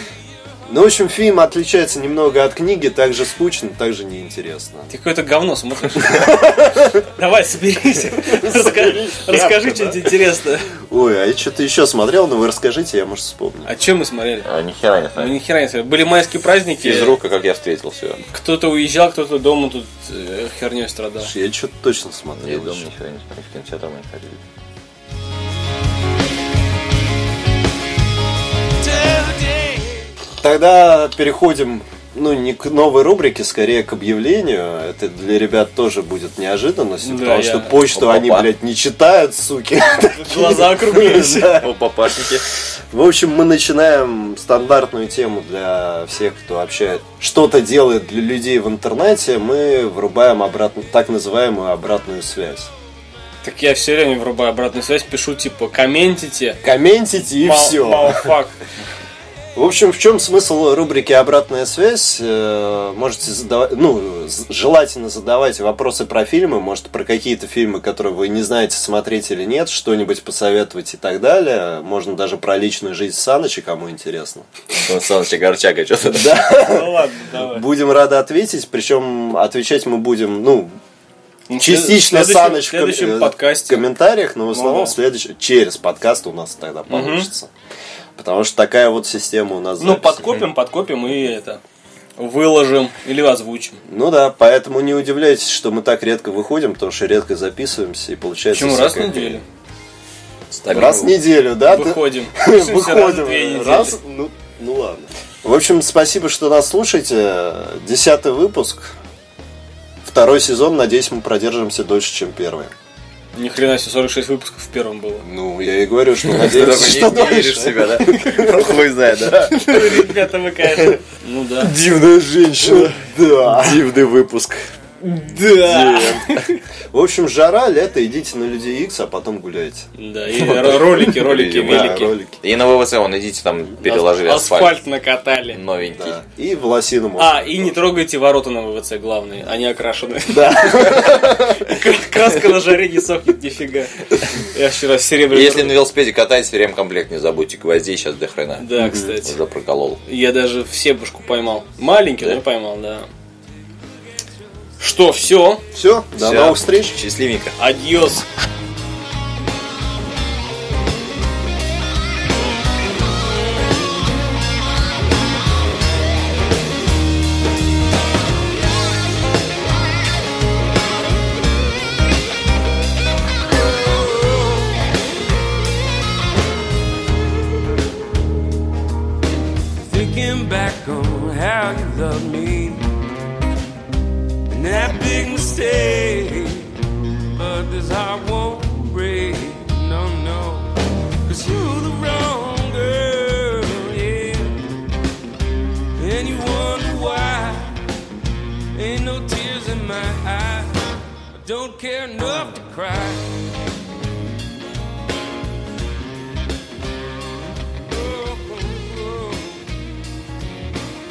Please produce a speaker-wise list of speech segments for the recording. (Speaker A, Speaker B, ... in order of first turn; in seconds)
Speaker A: 0.7-4.9, 6.1-7.0, 8.2-10.1, 10.9-13.7, 21.2-22.9, 30.4-41.7, 42.9-52.7, 56.6-58.3, 59.5-74.5, 76.1-80.8, 81.6-87.5, 88.2-90.4, 93.9-99.4, 100.7-109.0, 110.0-112.7, 115.2-118.8, 121.6-123.9, 126.9-129.9, 130.5-131.1, 131.6-132.4, 136.0-137.9, 140.3-141.6, 148.8-149.1, 155.7-157.0
Speaker B: 4.9-6.5, 7.0-10.7, 13.7-14.5, 15.2-17.2, 18.3-21.3, 37.0-37.8, 40.0-41.7, 53.4-56.6, 57.4-58.6, 76.5-77.7, 81.5-83.9, 84.5-84.9, 86.9-87.3, 89.8-91.6, 92.2-93.8, 98.5-99.4, 101.6-104.0, 113.3-115.3, 119.4-121.7, 125.0-126.6, 130.0-132.2, 133.8-135.6, 137.2-145.9, 148.6-149.4, 150.1-153.1, 154.8-155.6, 157.6-158.2
Speaker C: 14.4-15.4, 16.8-18.2, 22.4-24.4, 37.9-38.5, 41.5-42.5, 74.7-76.5, 100.5-101.2, 116.2-120.1, 123.6-124.6, 125.7-126.5, 130.5-134.8, 135.5-136.2, 145.3-150.0, 156.2-157.6
Speaker D: 28.8-30.0, 173.8-174.8, 179.8-182.9, 184.5-190.7, 191.2-194.6, 196.0-197.8, 198.8-203.5, 207.9-209.7